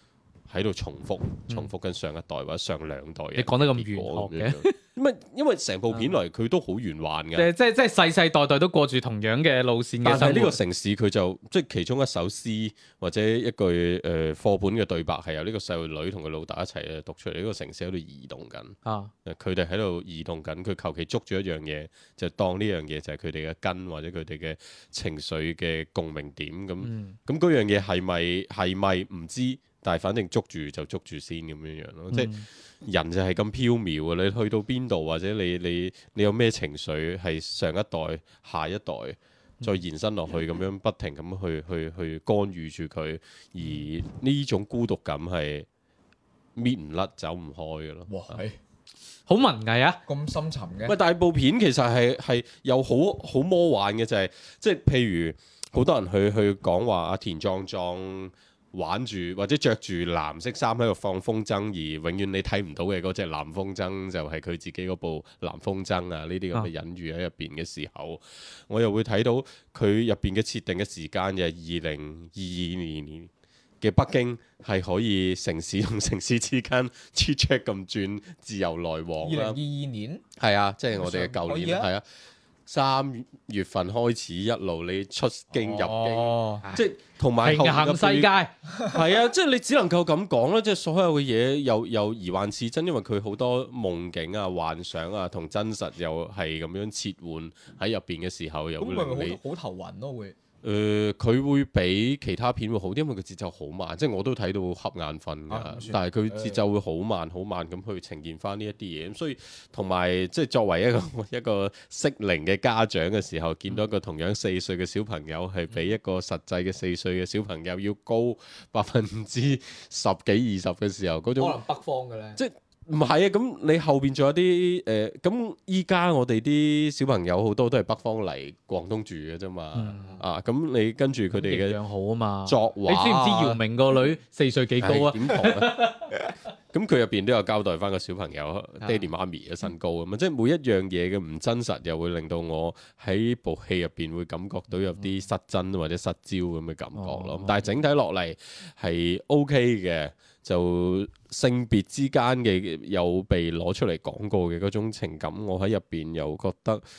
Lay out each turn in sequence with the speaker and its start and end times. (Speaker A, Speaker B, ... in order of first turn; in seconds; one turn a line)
Speaker A: 0.5-7.5
Speaker B: 3.4-4.7
Speaker B: 7.3-10.6
Speaker A: 10.0-32.3
Speaker B: 18.8-19.1
Speaker B: 26.8-27.1
Speaker B: 32.1-32.5
Speaker A: 32.8-45.6
Speaker A: 46.5-48.1
Speaker C: 48.1-48.5
Speaker B: 49.3-50.0
Speaker C: 50.1-50.9
Speaker A: 50.9-73.3
Speaker A: 73.8-79.6
Speaker C: 79.2-80.2
Speaker A: 80.4-82.0
Speaker C: 80.9-81.9
Speaker A: 82.7-88.3
Speaker C: 85.5-86.6
Speaker B: 87.4-88.5
Speaker C: 88.7-89.0
Speaker A: 88.9-99.4
Speaker C: 98.8-100.3
Speaker A: 100.6-121.6
Speaker C: 105.5-106.6
Speaker C: 121.4-122.4
Speaker A: 122.3-131.8
Speaker B: 129.7-130.1
Speaker B: 131.4-136.1
Speaker A: 132.4-133.3
Speaker A: 134.8-135.7
Speaker A: 136.7-156.8
Speaker B: 146.9-147.7